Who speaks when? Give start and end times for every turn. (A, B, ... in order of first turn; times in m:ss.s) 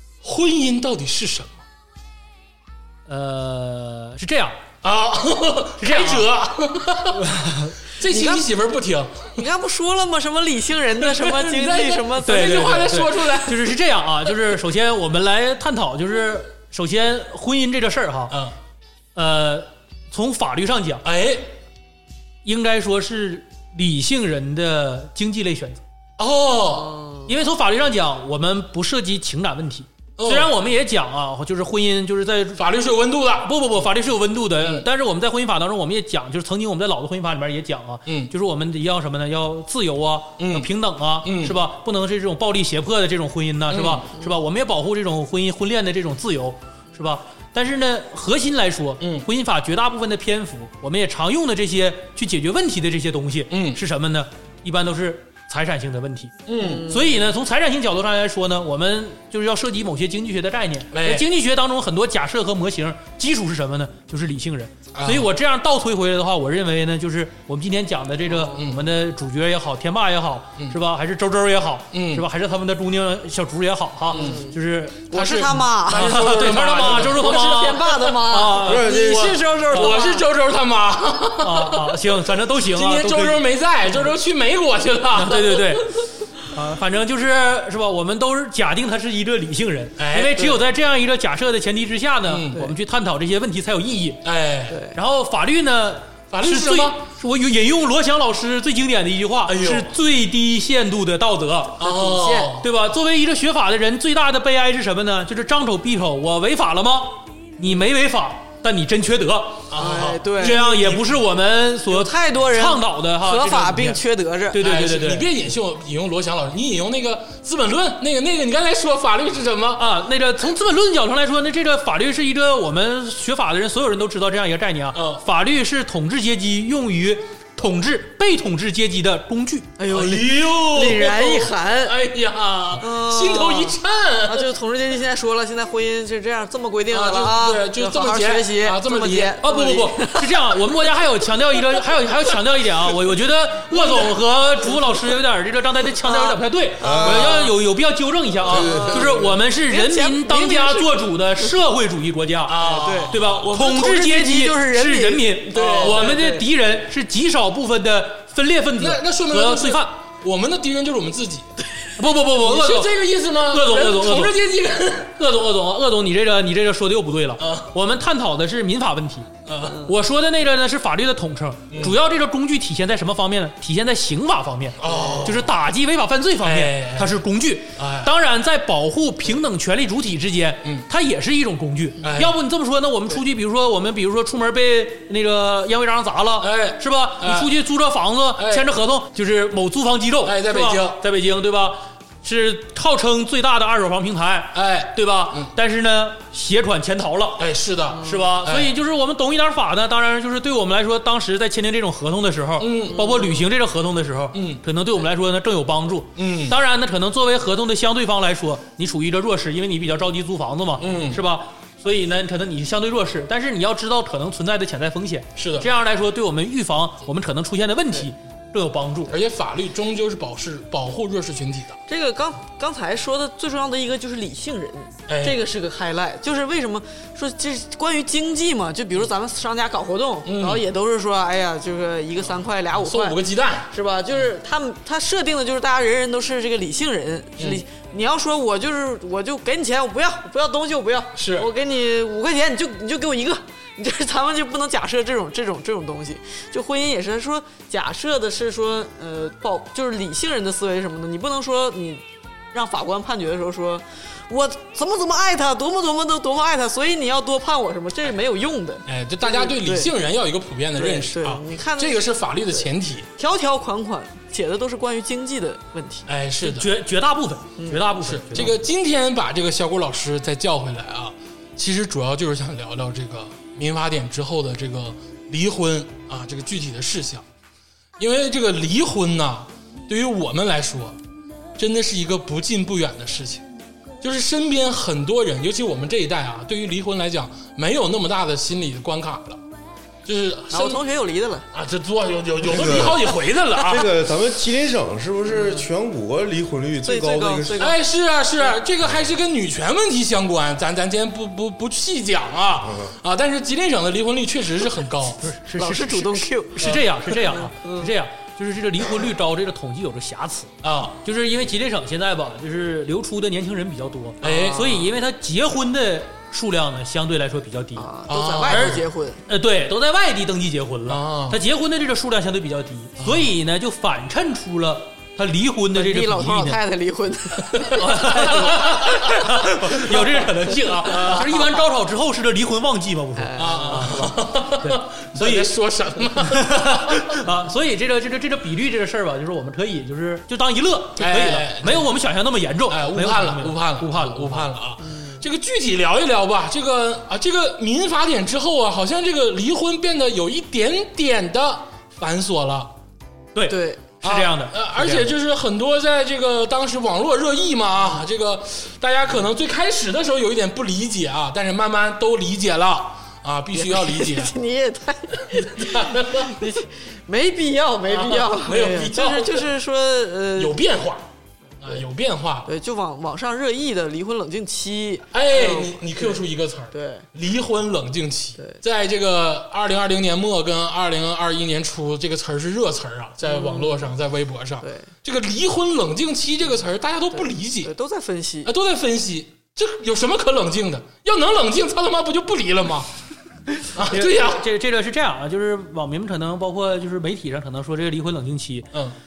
0:00.2-0:01.6 A
0:03.1-0:04.6 B
0:04.8-0:07.2 A
0:05.8-0:06.3 B
0:07.1-0:07.8 B
0:08.0-0:09.4 A
0:08.1-0:08.5 C
0:09.4-0:13.0 C
0:11.0-0:13.7 A
0:12.2-0:18.4 B
0:18.3-0:18.6 A
0:19.2-0:21.0 B
0:21.0-0:21.5 A
0:22.4-0:25.8 B
0:26.2-0:26.9 A
0:26.6-0:27.3 C
0:27.3-0:32.6 B
0:30.2-0:30.6 A
0:32.6-0:33.5 A
0:33.4-1:15.1 B
0:34.6-0:34.9 A
0:38.1-0:38.3 A
0:40.4-0:40.7 A
0:41.2-0:41.6 A
0:43.7-0:44.1 A
0:49.0-0:49.3 A
0:53.5-0:53.8 A
0:56.5-0:56.9 A
0:56.6-0:57.1 C
1:00.9-1:01.2 A
1:04.9-1:05.3 A
1:08.5-1:08.8 A
1:11.9-1:12.2 A
1:14.1-1:14.6 C
1:14.1-1:14.5 A
1:15.1-1:20.2 C
1:15.1-1:18.1 A
1:15.9-1:18.8 B
1:18.6-1:19.4 D
1:18.6-1:22.1 A
1:21.4-1:23.4 B
1:22.6-1:25.9 A
1:25.1-1:25.9 B
1:26.5-1:34.2 B
1:30.0-1:30.6 A
1:32.3-1:32.6 A
1:34.2-1:34.8 A
1:34.7-1:35.0 C
1:34.9-1:41.8 B
1:36.3-1:37.0 A
1:39.5-1:39.9 A
1:41.8-1:42.5 C
1:41.8-1:42.6 A
1:42.6-1:49.7 B
1:49.7-1:51.2 A
1:49.8-1:50.6 C
1:50.4-1:55.3 B
1:51.9-1:54.6 C
1:54.6-1:59.9 A
1:59.8-2:09.7 B
2:05.0-2:05.2 A
2:09.8-2:12.0 C
2:09.9-2:14.5 A
2:12.8-2:13.8 C
2:14.3-2:20.3 C
2:16.9-2:19.5 A
2:19.4-2:40.0 B
2:23.7-2:24.2 A
2:26.0-2:27.5 C
2:26.8-2:27.4 D
2:28.5-2:28.9 A
2:28.5-2:29.4 D
2:28.6-2:31.5 C
2:32.5-2:33.2 A
2:32.6-2:36.5 C
2:35.5-2:36.2 A
2:38.8-2:41.5 A
2:42.0-2:42.9 B
2:42.4-2:45.1 A
2:43.5-2:44.4 B
2:45.2-2:49.3 B
2:47.4-2:47.7 A
2:49.5-2:49.8 A
2:49.8-3:17.4 B
2:51.7-2:52.0 A
2:54.8-2:55.4 A
2:54.8-2:55.3 C
2:56.4-2:57.2 A
2:57.8-2:58.1 A
3:02.0-3:02.4 A
3:06.4-3:07.5 A
3:08.4-3:08.7 A
3:10.2-3:11.0 A
3:14.5-3:15.5 A
3:17.4-3:18.7 A
3:17.9-3:18.3 C
3:18.0-3:39.1 B
3:22.6-3:23.0 A
3:22.9-3:23.3 C
3:24.3-3:24.6 A
3:26.2-3:26.6 A
3:30.8-3:31.2 A
3:35.4-3:35.7 A
3:39.1-3:41.8 A
3:41.9-3:53.2 C
3:45.1-3:45.4 A
3:50.2-3:50.6 A
3:52.7-3:54.3 A
3:53.7-4:19.9 C
4:01.2-4:01.5 A
4:18.9-4:23.1 A
4:20.8-4:26.1 C
4:26.1-4:26.7 A
4:26.4-4:28.6 B
4:27.6-4:27.8 C
4:28.0-4:37.2 A
4:38.0-4:41.0 A
4:41.6-4:43.5 A
4:44.0-4:49.4 A
4:50.0-4:50.8 A
4:50.5-4:51.5 C
4:51.5-4:53.9 A
4:52.4-4:57.7 D
4:55.3-4:55.7 C
4:56.8-4:57.8 C
4:57.6-5:05.2 A
5:02.6-5:02.9 D
5:05.2-5:10.5 B
5:05.6-5:07.9 C
5:06.6-5:07.1 A
5:10.6-5:11.0 A
5:11.0-5:17.9 B
5:14.2-5:14.8 A
5:14.2-5:14.9 C
5:17.8-5:19.2 C
5:18.1-5:18.8 A
5:18.4-5:26.6 B
5:20.9-5:21.4 A
5:25.7-5:29.4 C
5:27.7-5:29.0 A
5:27.7-5:35.5 B
5:30.9-5:31.3 A
5:33.2-5:34.1 C
5:33.4-5:37.2 A
5:36.2-5:44.5 B
5:41.0-5:41.9 A
5:42.7-5:52.7 A
5:44.8-5:45.2 C
5:53.4-5:55.1 B
5:53.5-5:53.8 C
5:54.0-6:04.3 A
6:03.5-6:10.6 C
6:05.2-6:06.4 A
6:07.9-6:09.5 A
6:10.4-6:11.0 A
6:11.6-6:12.5 A
6:12.5-6:17.1 C
6:15.1-6:27.7 A
6:23.2-6:23.9 C
6:27.1-6:28.5 C
6:28.4-6:32.9 A
6:33.7-6:34.4 A
6:33.8-6:38.7 B